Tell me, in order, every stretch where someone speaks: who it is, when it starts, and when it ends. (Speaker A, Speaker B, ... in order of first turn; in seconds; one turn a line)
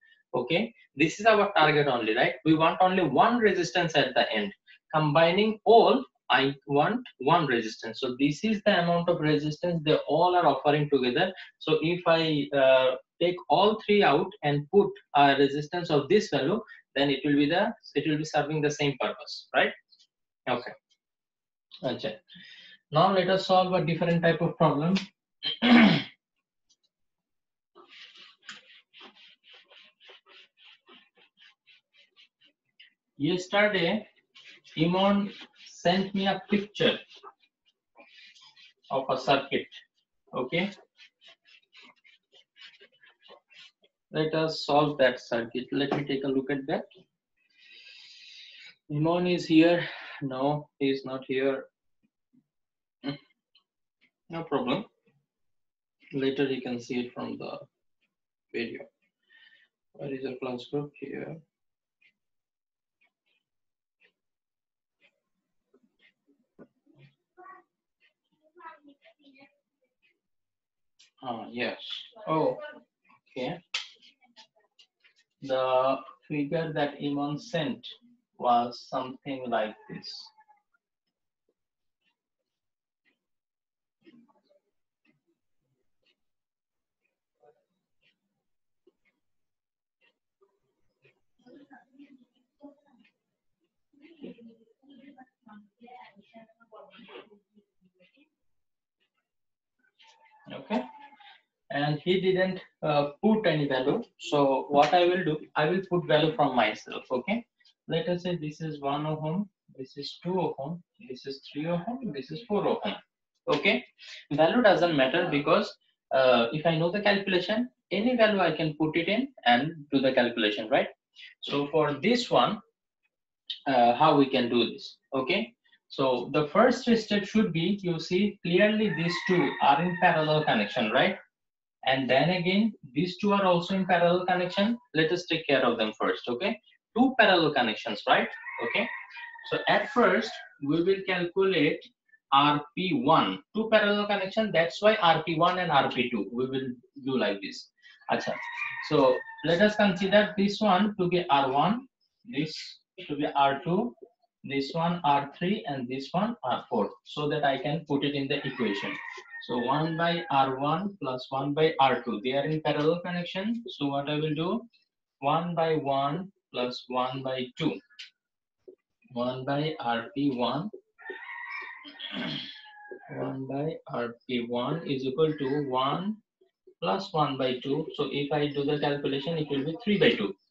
Speaker A: 0.3-19.7
Speaker A: 20.5-20.7
Speaker A: 21.8-22.2
Speaker A: 22.9-26.1
Speaker A: 33.2-34.1
Speaker A: 34.8-37.0
Speaker A: 38.9-39.8
Speaker A: 40.3-40.7
Speaker A: 44.1-46.9
Speaker A: 48.9-51.7
Speaker A: 54.3-54.9
Speaker A: 56.1-57.6
Speaker A: 58.5-58.9
Speaker A: 60.0-61.4
Speaker A: 71.2-72.6
Speaker A: 73.2-73.6
Speaker A: 75.4-80.3
Speaker A: 100.5-100.8
Speaker A: 101.7-120.9
Speaker A: 121.4-122.6
Speaker A: 123.7-131.2
Speaker A: 131.8-138.9
Speaker A: 139.4-164.7
Speaker A: 165.2-167.8
Speaker A: 169.1-170.7
Speaker A: 172.1-172.4
Speaker A: 173.1-176.2
Speaker A: 176.8-180.3